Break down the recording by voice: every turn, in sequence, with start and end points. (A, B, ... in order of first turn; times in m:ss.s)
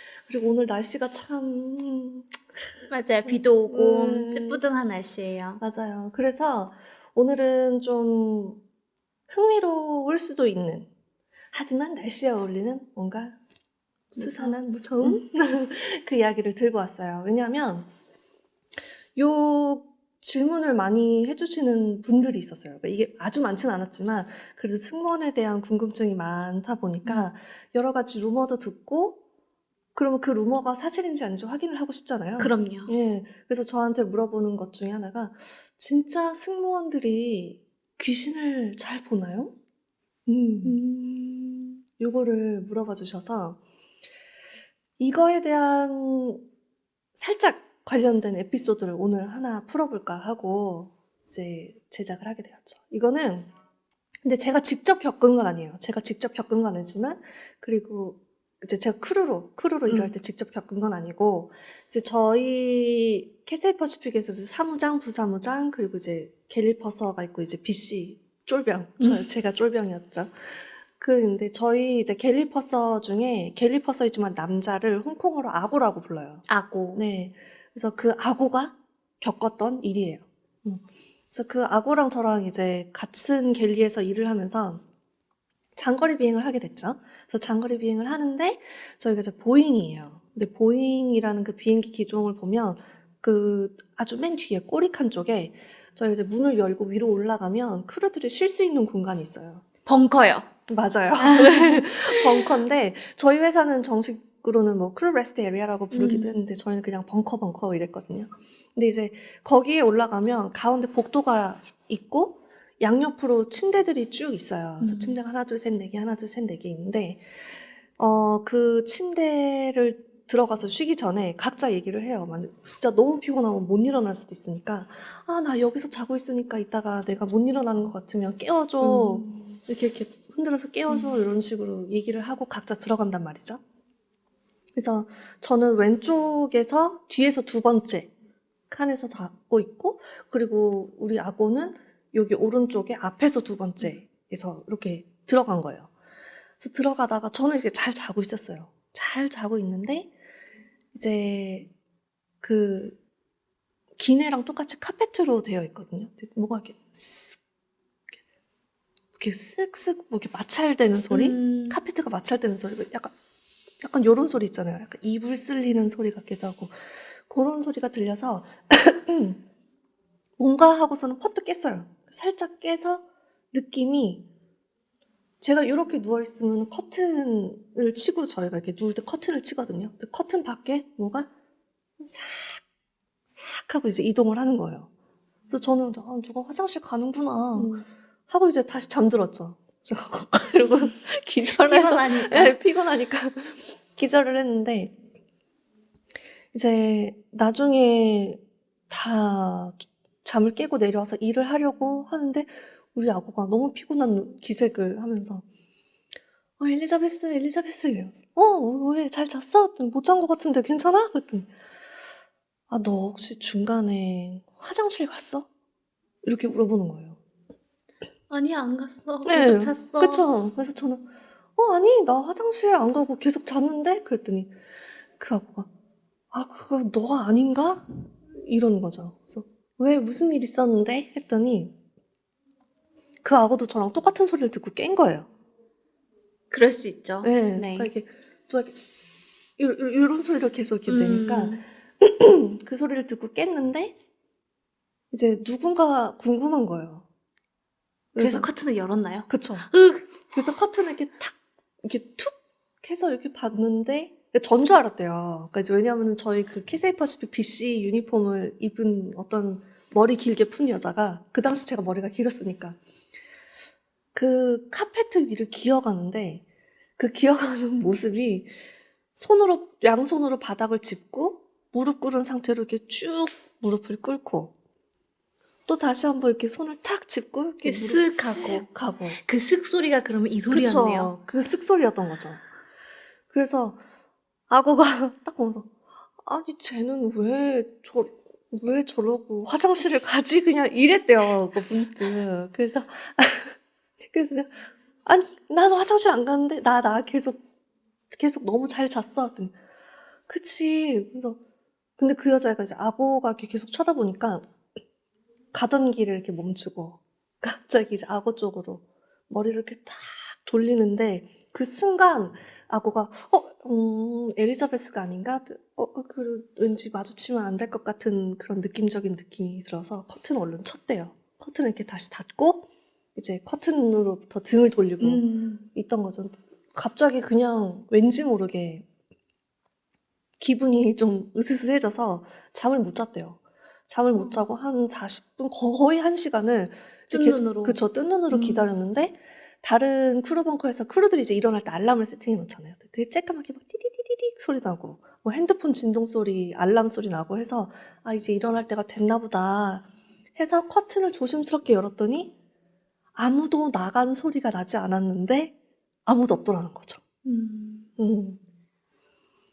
0:00.3-0:02.6 A
0:02.9-0:05.6 B
0:03.2-0:04.6 A
0:05.6-0:08.6 A
0:09.3-0:10.9 A
0:11.5-0:13.4 A
0:14.1-0:17.9 A
0:14.2-0:15.2 B
0:19.2-0:29.2 A
0:30.0-0:39.6 A
0:32.4-0:32.9 B
0:40.3-0:40.8 A
0:40.6-0:41.8 B
0:42.0-0:43.6 A
0:45.0-0:46.4 A
0:47.2-0:53.5 A
0:54.2-1:24.8 A
0:59.9-1:00.1 B
1:16.5-1:17.0 B
1:25.8-1:39.6 A
1:39.9-1:40.5 B
1:40.7-1:57.2 A
1:41.2-1:42.5 B
1:45.9-1:46.4 B
1:54.8-1:55.2 B
1:58.0-2:13.6 A
2:08.8-2:09.4 B
2:10.9-2:11.3 B
2:14.8-2:18.1 A
2:18.7-2:25.9 A
2:26.6-2:30.1 A
2:30.9-2:31.7 A
2:32.4-2:33.0 A
2:34.0-2:37.4 A
2:39.2-2:43.1 A
2:41.1-2:41.8 B
2:43.8-2:49.4 A
2:50.4-2:54.2 A
2:55.4-3:01.3 A
3:02.0-3:02.6 A
3:03.3-3:04.9 A
3:05.5-3:07.7 A
3:07.6-3:07.8 B
3:08.3-3:15.0 A
3:11.6-3:12.6 B
3:16.5-3:25.4 A
3:26.6-3:31.5 A
3:32.7-3:35.5 A
3:36.2-3:37.2 A
3:38.3-3:40.3 B
3:39.2-3:44.5 A
3:45.2-3:45.7 A
3:46.3-3:51.7 A
3:53.2-3:55.3 A
3:56.5-3:57.9 B
3:57.2-3:58.9 A
3:59.6-4:04.0 A
4:00.9-4:01.6 B
4:05.1-4:07.1 A
4:08.2-4:08.5 A
4:08.2-4:10.2 B
4:09.3-4:09.7 A
4:10.3-4:22.8 A
4:24.1-4:26.4 A
4:27.0-4:28.5 A
4:29.2-4:34.5 A
4:35.7-4:39.2 A
4:37.6-4:41.1 B
4:40.5-4:42.4 A
4:43.3-4:43.8 A
4:44.5-4:53.6 A
4:54.1-4:57.4 A
4:58.1-4:59.6 A
5:00.3-5:01.4 A
5:02.0-5:04.4 A
5:05.5-5:28.8 A
5:25.0-5:25.7 B
5:30.4-5:52.3 A
5:34.2-5:34.5 B
5:37.1-5:38.7 B
5:53.2-5:55.5 A
5:56.1-5:57.0 A
5:57.2-5:57.9 B
5:58.0-5:58.4 A